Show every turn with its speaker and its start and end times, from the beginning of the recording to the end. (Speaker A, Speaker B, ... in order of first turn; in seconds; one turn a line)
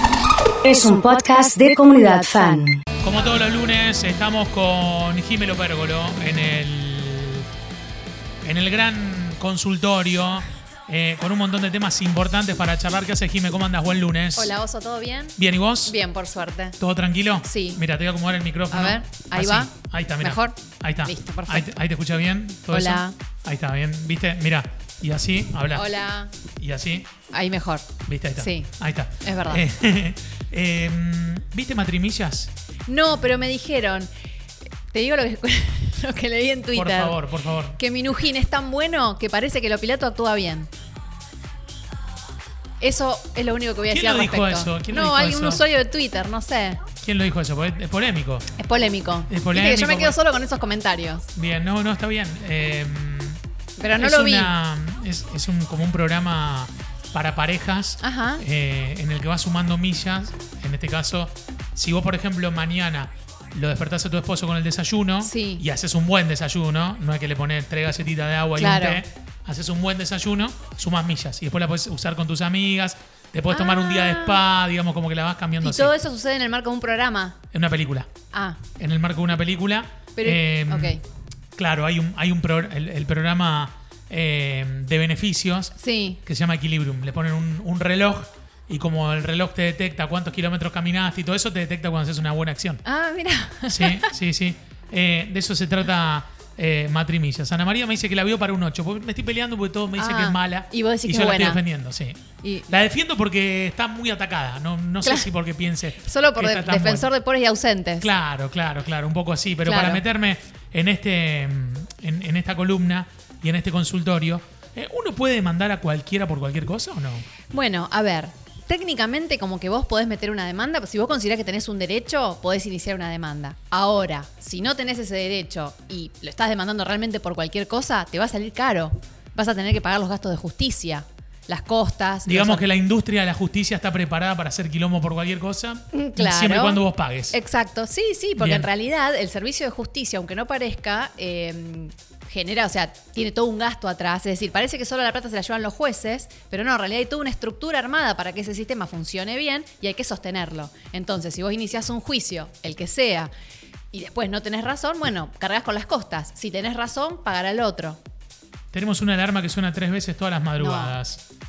Speaker A: 0.6-2.8
Speaker B: 3.0-7.5
Speaker B: 8.4-14.5
Speaker C: 14.3-16.8
Speaker B: 15.4-15.9
Speaker B: 16.8-25.9
Speaker C: 17.4-17.8
Speaker C: 18.7-21.7
Speaker C: 22.7-23.1
Speaker C: 25.7-26.3
Speaker B: 26.6-27.1
Speaker C: 27.3-29.6
Speaker B: 28.1-32.5
Speaker C: 32.9-34.1
Speaker C: 34.9-37.2
Speaker B: 36.7-37.8
Speaker C: 37.8-40.7
Speaker C: 42.8-46.8
Speaker B: 43.9-45.6
Speaker B: 47.0-48.5
Speaker C: 48.6-51.3
Speaker B: 49.3-50.2
Speaker B: 51.3-53.4
Speaker C: 53.8-54.5
Speaker B: 54.0-75.9
Speaker C: 58.0-58.4
Speaker C: 65.2-65.6
Speaker C: 68.6-69.0
Speaker C: 73.5-74.4
Speaker C: 75.6-77.4
Speaker B: 77.5-78.1
Speaker C: 78.3-78.6
Speaker B: 78.8-81.0
Speaker C: 80.2-81.0
Speaker B: 81.5-92.8
Speaker C: 85.7-86.2
Speaker C: 92.8-94.1
Speaker B: 93.7-107.1
Speaker C: 100.0-101.6
Speaker C: 102.4-102.7
Speaker C: 105.0-105.3
Speaker C: 106.0-108.1
Speaker B: 108.0-117.2
Speaker C: 109.6-110.0
Speaker C: 117.5-132.7
Speaker B: 132.2-137.3
Speaker C: 135.9-153.3
Speaker B: 138.4-138.7
Speaker C: 153.9-158.0
Speaker B: 158.7-161.2
Speaker C: 160.6-161.0